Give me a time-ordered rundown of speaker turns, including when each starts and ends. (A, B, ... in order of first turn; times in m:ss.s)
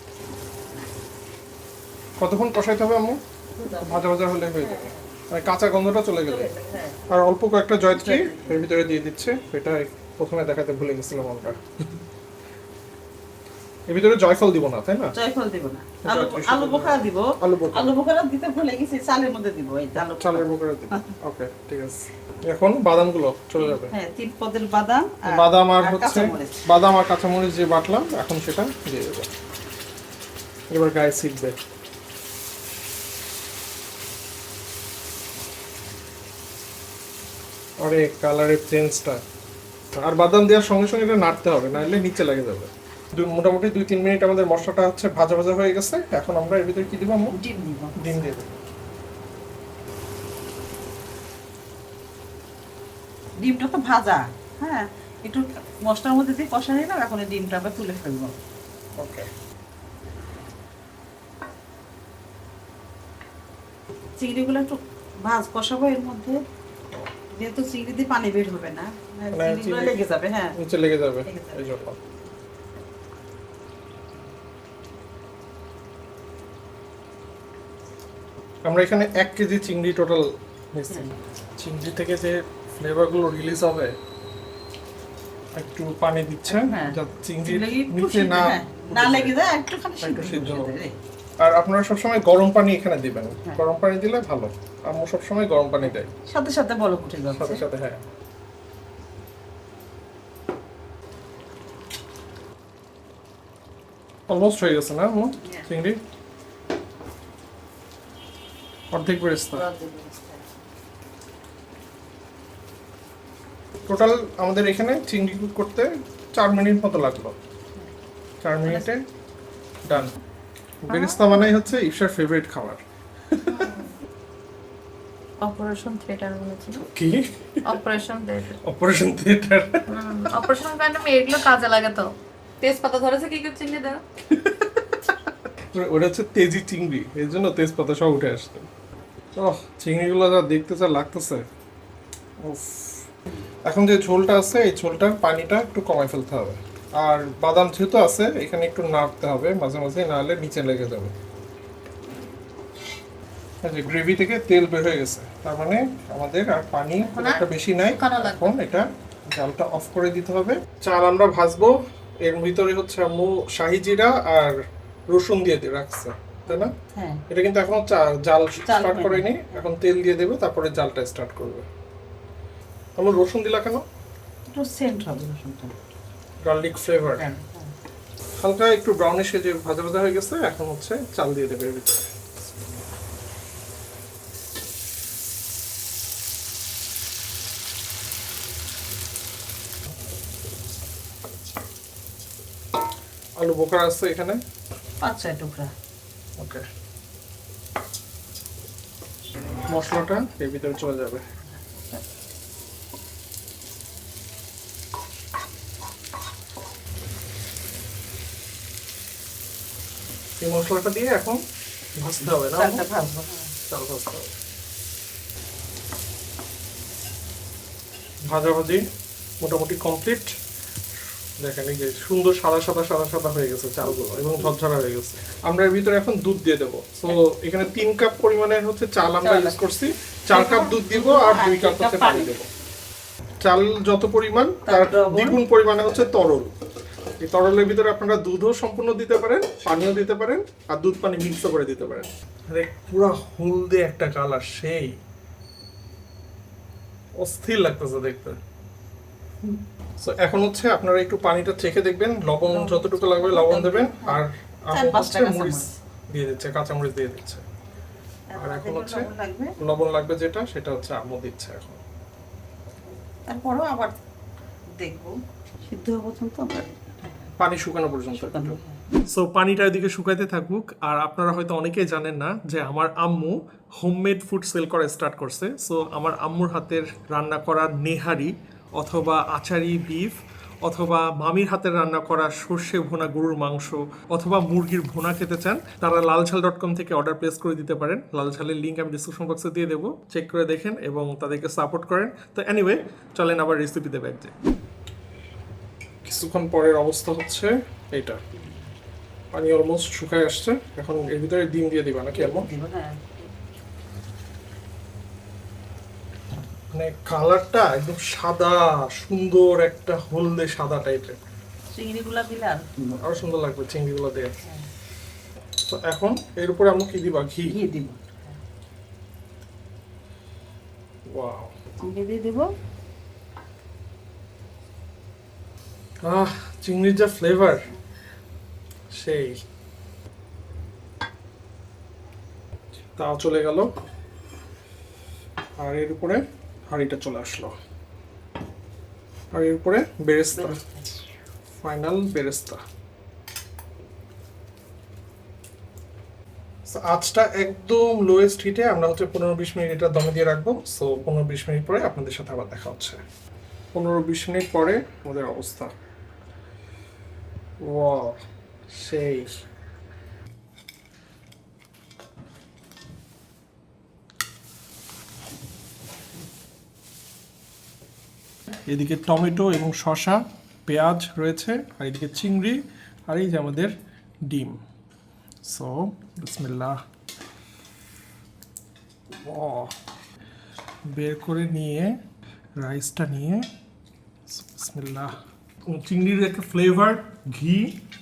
0:02.2-0:03.2 A
0:03.6-0:05.2 B
0:03.8-0:06.5 A
0:06.2-0:07.0 B
0:07.1-0:11.6 A
0:07.9-0:08.6 B
0:13.9-0:15.1 A
0:15.1-0:21.0 B
0:16.0-0:18.0 A
0:20.0-0:23.9 A
0:23.6-0:26.6 B
0:25.3-0:29.3 A
0:30.7-0:31.6 A
0:37.8-0:39.2 A
0:40.0-0:47.4 A
0:47.3-0:48.3 B
0:48.0-0:48.5 A
0:53.4-0:58.4 B
0:59.0-0:59.3 A
1:04.2-1:06.4 B
1:07.3-1:10.6 B
1:09.3-1:10.0 A
1:10.6-1:12.0 A
1:11.2-1:11.7 B
1:18.6-1:23.9 A
1:25.5-1:29.3 A
1:26.5-1:30.9 B
1:30.0-1:30.7 A
1:31.4-1:36.1 A
1:35.8-1:37.6 B
1:37.3-1:38.0 A
1:44.3-1:46.0 A
1:48.9-1:49.6 A
1:49.5-1:50.5 B
1:53.9-1:57.4 A
1:58.4-1:59.0 A
1:59.8-2:00.1 A
2:00.8-2:02.8 A
2:00.9-2:01.4 C
2:03.4-2:03.9 C
2:05.4-2:06.8 C
2:06.8-2:07.6 A
2:07.6-2:08.6 C
2:08.6-2:09.8 A
2:09.9-2:14.0 C
2:14.3-2:14.7 A
2:15.7-2:18.7 A
2:19.4-2:21.4 A
2:22.4-2:23.0 A
2:23.6-2:31.1 A
2:33.6-2:44.6 A
2:37.0-2:38.5 C
2:45.1-2:46.7 A
2:46.5-2:47.2 B
2:47.3-2:51.6 A
2:48.6-2:49.7 B
2:53.0-2:53.8 A
2:54.5-2:55.7 B
2:56.4-2:57.3 A
2:57.2-2:57.7 B
2:58.4-3:02.0 A
3:13.4-3:14.4 A
3:15.0-3:15.7 B
3:16.4-3:16.6 A
3:19.7-3:21.2 A
3:30.4-3:31.4 A
3:32.0-3:32.8 A
3:32.5-3:33.5 B
3:33.7-3:34.3 A
3:38.2-3:38.8 A
3:39.4-3:40.3 A
3:41.4-3:52.5 A
3:44.0-3:44.5 B
3:49.2-3:49.6 B
3:50.3-3:52.3 B
3:53.4-3:56.5 A
3:54.6-3:55.4 B
3:57.2-4:04.9 A
4:07.2-4:08.4 A
4:10.0-4:17.4 A
4:12.5-4:14.2 B
4:14.7-4:15.7 B
4:18.3-4:19.5 B
4:18.4-4:19.1 A
4:19.6-4:21.8 A
4:23.3-4:24.0 B
4:24.8-4:25.1 B
4:25.6-4:26.7 B
4:27.4-4:28.6 A
4:28.1-4:28.8 B
4:29.1-4:54.3 A
4:56.0-4:58.2 A
4:59.3-5:02.5 A
5:02.1-5:03.3 B
5:06.7-5:11.2 A
5:11.7-5:13.1 B
5:13.0-5:14.3 A
5:15.6-5:17.5 A
5:17.5-5:18.3 B
5:21.1-5:21.5 A
5:21.8-5:22.5 B
5:26.0-5:27.7 A
5:28.9-5:29.4 A
5:33.0-5:33.7 A
5:35.6-5:37.5 A
5:39.3-5:40.6 A
5:40.3-5:40.9 B
5:41.6-5:42.6 A
5:46.7-5:53.0 A
5:53.7-5:55.7 A
5:57.6-5:58.2 A
5:58.7-5:59.4 A
6:08.7-6:13.7 A
6:14.3-6:14.6 A
6:15.4-6:16.8 A
6:19.2-6:19.7 A
6:20.9-6:22.0 A
6:22.6-6:23.4 A
6:24.3-6:25.1 A
6:25.7-6:27.7 A